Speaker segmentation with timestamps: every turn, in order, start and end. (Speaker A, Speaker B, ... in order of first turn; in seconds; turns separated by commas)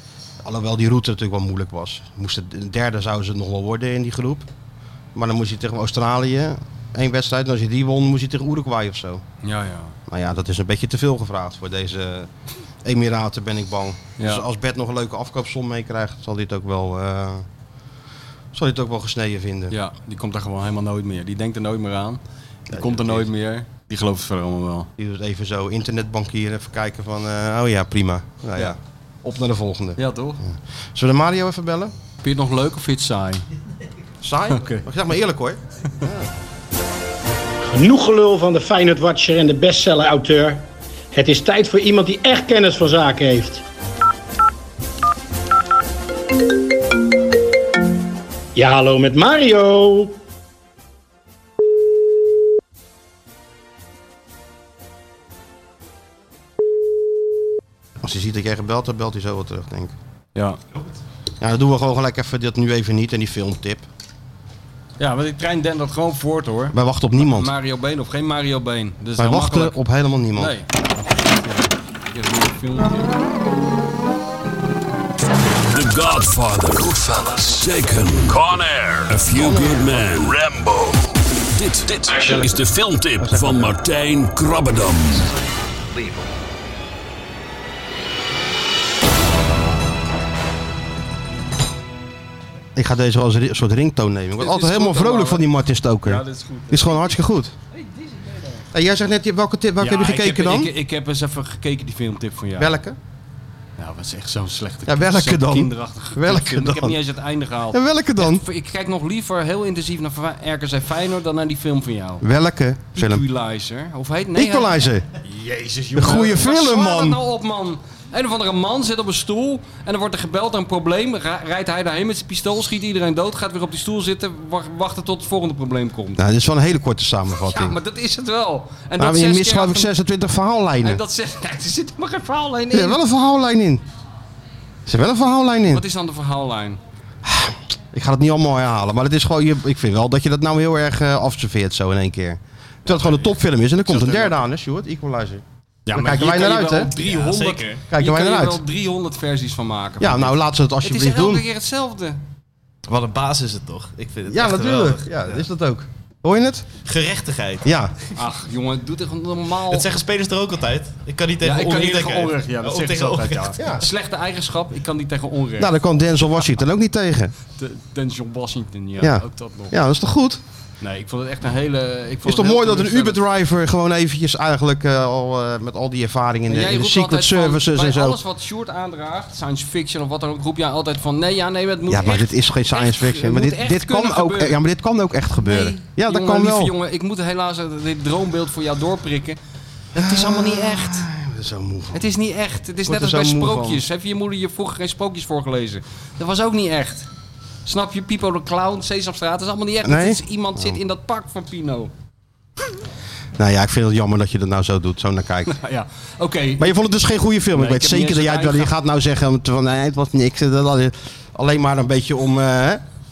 Speaker A: 0.4-4.5, Speaker A: 5.1-9.2, Speaker B: 9.4-9.9, Speaker A: 10.1-12.3, Speaker A: 12.8-17.4, Speaker B: 14.2-14.4, Speaker A: 18.5-19.8, Speaker B: 19.7-22.2, Speaker A: 22.7-23.3, Speaker B: 22.7-24.9, Speaker A: 25.0-31.9, Speaker B: 30.0-30.4, Speaker B: 32.2-33.4, Speaker A: 34.2-36.3, Speaker B: 34.5-34.9, Speaker C: 37.7-43.6, Speaker C: 48.5-50.1, Speaker A: 58.0-59.9, Speaker A: 61.4-63.8, Speaker B: 65.0-69.8, Speaker A: 66.7-67.5, Speaker A: 69.2-70.5, Speaker B: 70.4-73.2, Speaker D: 75.7-85.3, Speaker B: 79.1-80.1, Speaker A: 82.2-82.5, Speaker A: 83.2-83.7, Speaker A: 92.8-97.5, Speaker B: 94.4-95.5, Speaker B: 96.0-97.2, Speaker A: 98.7-100.7, Speaker B: 99.8-102.8, Speaker A: 102.6-103.0, Speaker B: 103.8-112.2, Speaker A: 104.9-107.0, Speaker A: 107.7-108.4, Speaker A: 112.2-113.2, Speaker B: 112.9-126.2, Speaker A: 114.3-115.0, Speaker A: 115.9-117.2, Speaker A: 126.2-127.8, Speaker B: 127.4-129.9, Speaker A: 129.0-131.0, Speaker B: 130.8-133.0, Speaker A: 132.7-133.8, Speaker A: 134.9-135.8, Speaker B: 135.7-136.8, Speaker A: 137.2-146.9, Speaker B: 142.9-143.3, Speaker B: 143.9-144.4, Speaker B: 145.9-152.2, Speaker E: 146.9-147.8, Speaker A: 147.9-148.6, Speaker A: 150.0-151.4, Speaker E: 152.9-155.4, Speaker A: 154.3-156.7, Speaker E: 156.8-157.7, Speaker A: 157.6-157.9, Speaker B: 158.1-159.9, Speaker E: 159.7-163.8, Speaker B: 161.4-165.7, Speaker A: 165.6-167.3, Speaker B: 167.6-169.8, Speaker A: 169.0-170.4, Speaker B: 170.8-173.2, Speaker A: 172.2-178.2, Speaker B: 176.5-184.6, Speaker A: 181.9-186.7, Speaker B: 185.4-189.4, Speaker B: 189.9-191.1, Speaker A: 189.9-192.0, Speaker B: 191.9-197.1, Speaker A: 192.9-193.8, Speaker B: 197.6-201.9, Speaker A: 199.8-200.8, Speaker A: 203.4-205.6, Speaker B: 205.5-206.8, Speaker A: 206.6-212.8, Speaker B: 207.5-208.7